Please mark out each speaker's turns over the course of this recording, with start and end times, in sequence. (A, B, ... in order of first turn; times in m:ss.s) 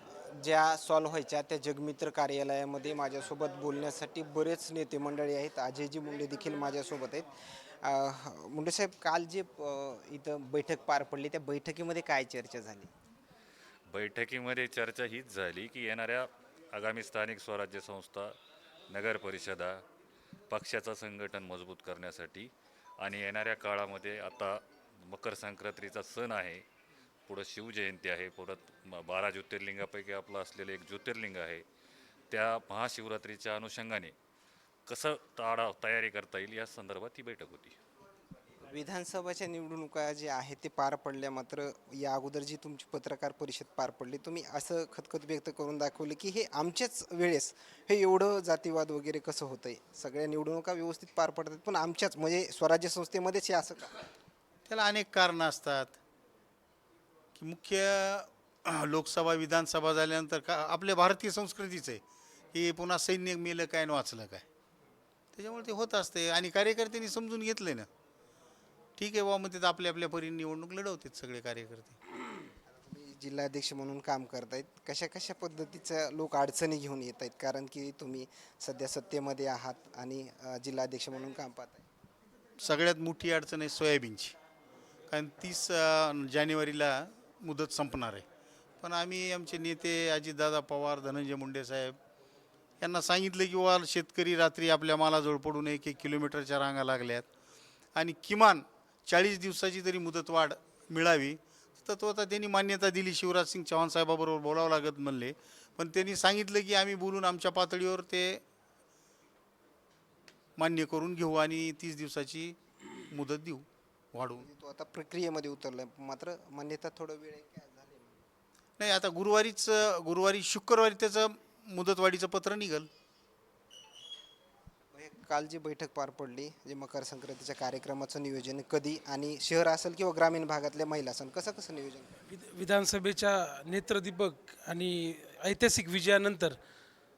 0:00.3-0:07.3 A
0:07.8-0:12.9 A
0:13.9-0:18.4 B
0:18.9-0:19.8 B
0:20.5-0:26.6 B
0:27.3-0:31.6 B
0:32.3-0:34.1 B
0:34.8-0:37.8 B
0:38.6-0:54.0 A
0:54.7-0:56.0 C
0:57.4-1:02.0 C
1:02.5-1:04.4 C
1:05.3-1:07.9 C
1:09.0-1:12.0 C
1:12.7-1:21.8 A
1:22.6-1:24.4 C
1:25.1-1:28.2 C
1:28.8-1:32.0 C
1:32.8-1:37.2 C
1:37.9-1:48.4 C
1:50.6-1:52.6 C
1:53.1-1:54.4 C
1:54.4-1:58.2 A
1:58.8-2:02.9 C
2:04.9-2:12.1 A
2:12.3-2:16.6 D